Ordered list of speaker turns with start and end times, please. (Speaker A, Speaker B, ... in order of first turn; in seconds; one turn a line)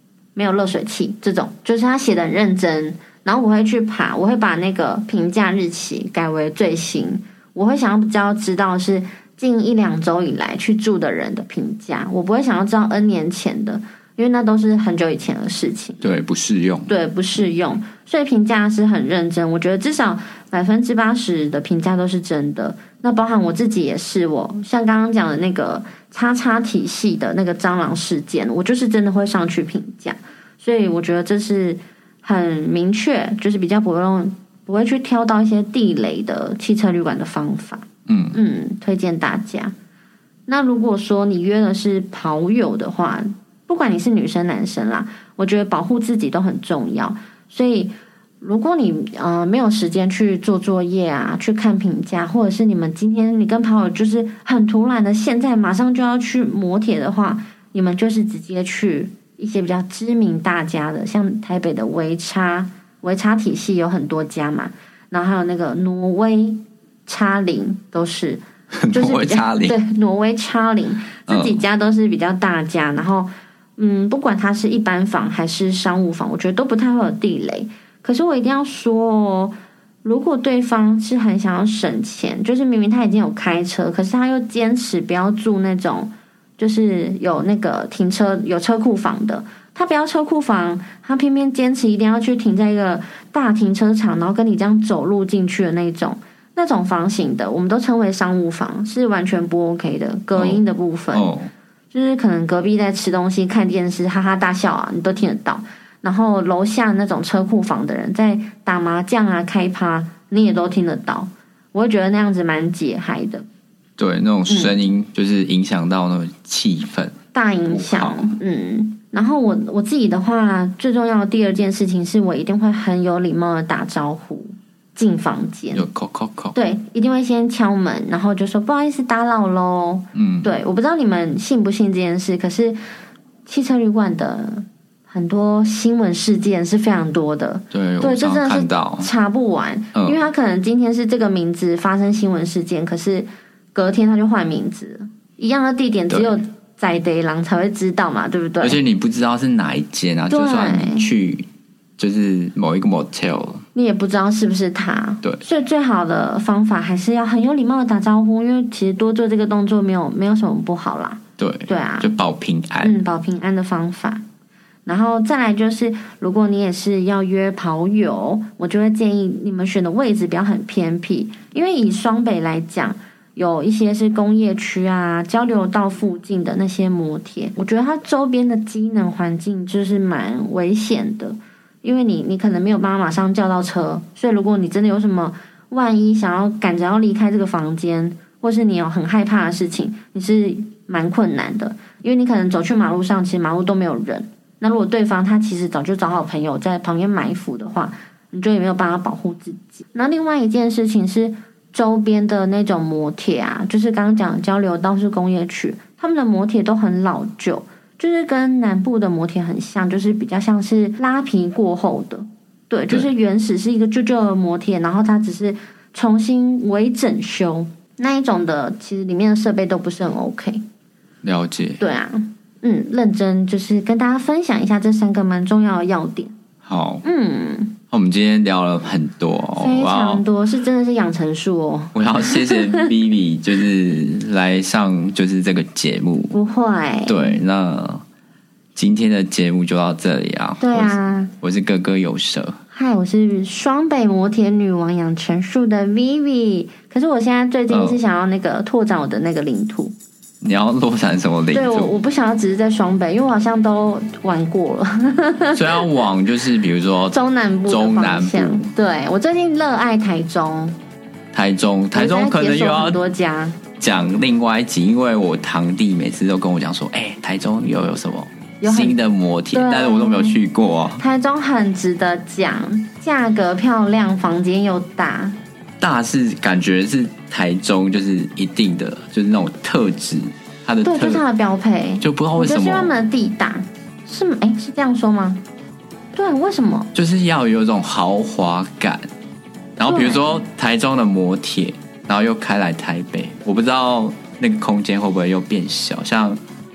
Speaker A: 0.4-16.0
Speaker B: 16.0-16.9
Speaker A: 16.9-39.7
Speaker B: 38.1-38.4
Speaker A: 40.5-101.3
Speaker B: 68.7-69.8
Speaker B: 71.3-71.6
Speaker B: 100.3-100.6
Speaker B: 101.1-101.5
Speaker A: 101.9-113.5
Speaker B: 114.0-117.2
Speaker A: 114.5-114.8
Speaker A: 117.3-125.9
Speaker B: 117.7-118.4
Speaker B: 125.7-126.6
Speaker A: 126.5-132.8
Speaker B: 130.1-130.5
Speaker A: 133.5-148.8
Speaker B: 137.7-139.1
Speaker B: 139.9-140.2
Speaker B: 146.1-146.4
Speaker B: 148.6-151.5
Speaker A: 150.3-151.1
Speaker B: 152.0-153.6
Speaker A: 153.8-162.1
Speaker B: 161.4-163.0
Speaker A: 162.8-164.2
Speaker A: 164.9-220.6
Speaker B: 221.2-221.8
Speaker A: 221.8-226.3
Speaker B: 226.7-227.0
Speaker A: 227.0-227.8
Speaker B: 227.9-230.2
Speaker A: 229.6-232.9
Speaker B: 231.9-236.4
Speaker A: 236.3-237.4
Speaker B: 237.1-238.0
Speaker B: 238.8-242.6
Speaker A: 240.6-241.3
Speaker A: 242.7-249.9
Speaker B: 247.7-248.0
Speaker B: 250.4-251.9
Speaker A: 251.5-255.9
Speaker B: 255.5-258.7
Speaker A: 257.1-260.8
Speaker B: 261.3-263.0
Speaker A: 261.9-263.6
Speaker B: 263.8-271.0
Speaker A: 268.6-269.0
Speaker A: 269.5-270.4
Speaker A: 271.0-275.4
Speaker B: 275.8-281.2
Speaker A: 280.8-285.4
Speaker B: 282.0-282.9
Speaker A: 286.1-286.9
Speaker B: 286.9-289.1
Speaker B: 289.8-296.4
Speaker A: 289.9-290.3